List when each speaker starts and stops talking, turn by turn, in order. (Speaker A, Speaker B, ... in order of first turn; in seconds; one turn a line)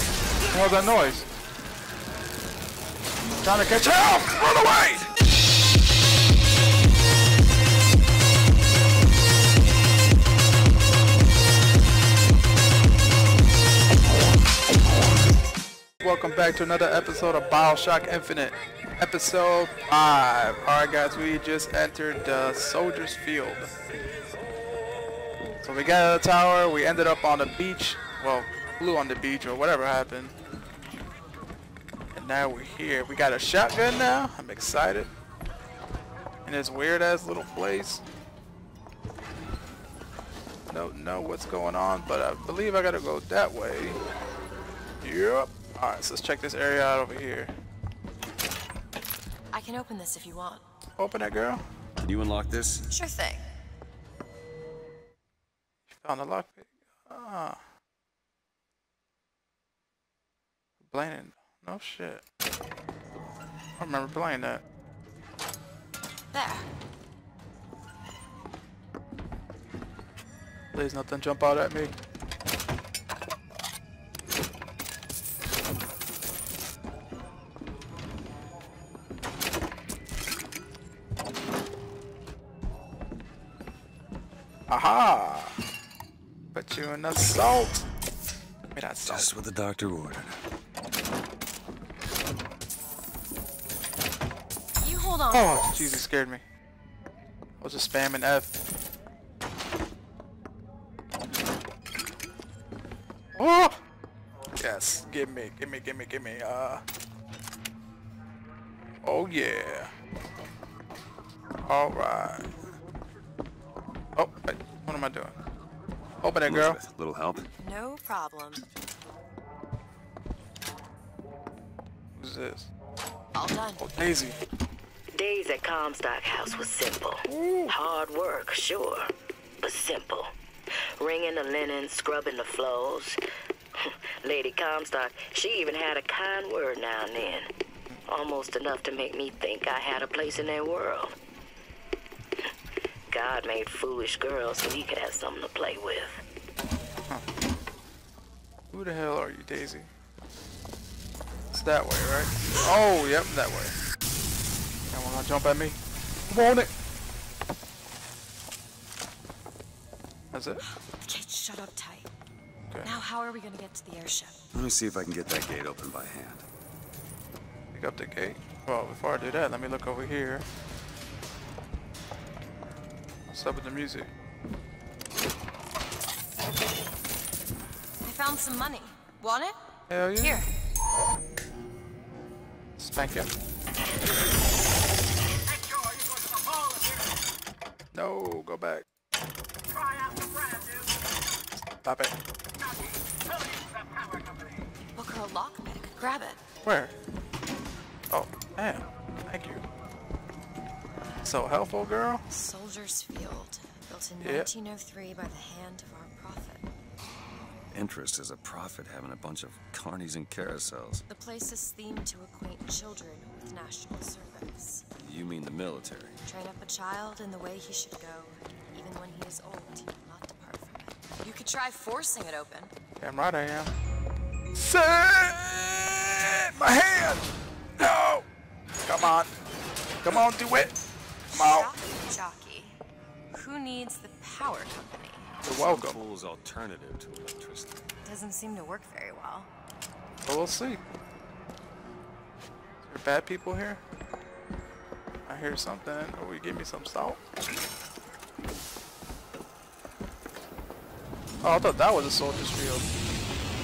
Speaker A: 0.5-1.3
Speaker A: 3.4-5.1
Speaker A: 16.0-23.7
Speaker A: 25.6-30.4
Speaker A: 32.1-35.1
Speaker A: 36.5-38.0
Speaker A: 40.7-44.0
Speaker A: 45.0-47.5
Speaker B: 49.5-50.6
Speaker A: 51.0-51.6
Speaker C: 52.0-52.9
Speaker B: 52.9-53.5
Speaker A: 55.9-57.6
Speaker A: 60.9-62.2
Speaker A: 63.8-64.6
Speaker B: 66.3-66.7
Speaker A: 70.7-71.9
Speaker A: 84.7-85.6
Speaker A: 86.5-87.8
Speaker A: 88.7-89.3
Speaker C: 89.0-90.4
Speaker B: 94.8-96.0
Speaker A: 95.3-96.4
Speaker A: 97.6-98.6
Speaker A: 103.4-103.8
Speaker A: 104.6-106.8
Speaker A: 109.0-109.9
Speaker A: 111.6-112.5
Speaker A: 114.2-115.4
Speaker A: 116.2-116.8
Speaker C: 116.5-117.5
Speaker B: 117.6-118.7
Speaker A: 122.2-122.7
Speaker B: 123.3-123.9
Speaker A: 123.8-124.4
Speaker D: 125.1-130.3
Speaker A: 127.3-127.7
Speaker D: 131.0-133.2
Speaker D: 133.8-137.5
Speaker D: 138.1-141.2
Speaker D: 143.1-146.2
Speaker A: 148.7-149.9
Speaker A: 151.5-153.8
Speaker A: 154.9-156.7
Speaker A: 160.3-160.6
Speaker B: 160.6-162.1
Speaker B: 162.8-164.4
Speaker C: 164.5-166.4
Speaker A: 167.7-170.5
Speaker A: 173.3-174.1
Speaker B: 178.0-179.6
Speaker A: 179.9-180.4
Speaker B: 180.1-180.5
Speaker A: 182.8-183.3
Speaker A: 187.9-188.9
Speaker A: 191.6-192.2
Speaker B: 194.9-196.4
Speaker A: 196.6-196.9
Speaker A: 198.1-199.6
Speaker A: 201.2-202.2
Speaker B: 202.3-206.7
Speaker A: 204.2-204.5
Speaker C: 207.7-211.0
Speaker B: 211.1-214.9
Speaker C: 215.0-216.2
Speaker B: 216.2-222.7
Speaker A: 223.0-223.7
Speaker A: 224.5-227.2
Speaker A: 227.8-228.3
Speaker A: 228.8-229.3
Speaker A: 230.0-230.8
Speaker B: 231.3-232.8
Speaker A: 231.3-231.7
Speaker B: 233.3-235.4
Speaker A: 235.4-236.0
Speaker C: 235.5-237.8
Speaker B: 238.0-239.5
Speaker A: 240.2-240.8
Speaker A: 242.8-243.8
Speaker A: 245.3-247.2
Speaker A: 251.4-252.9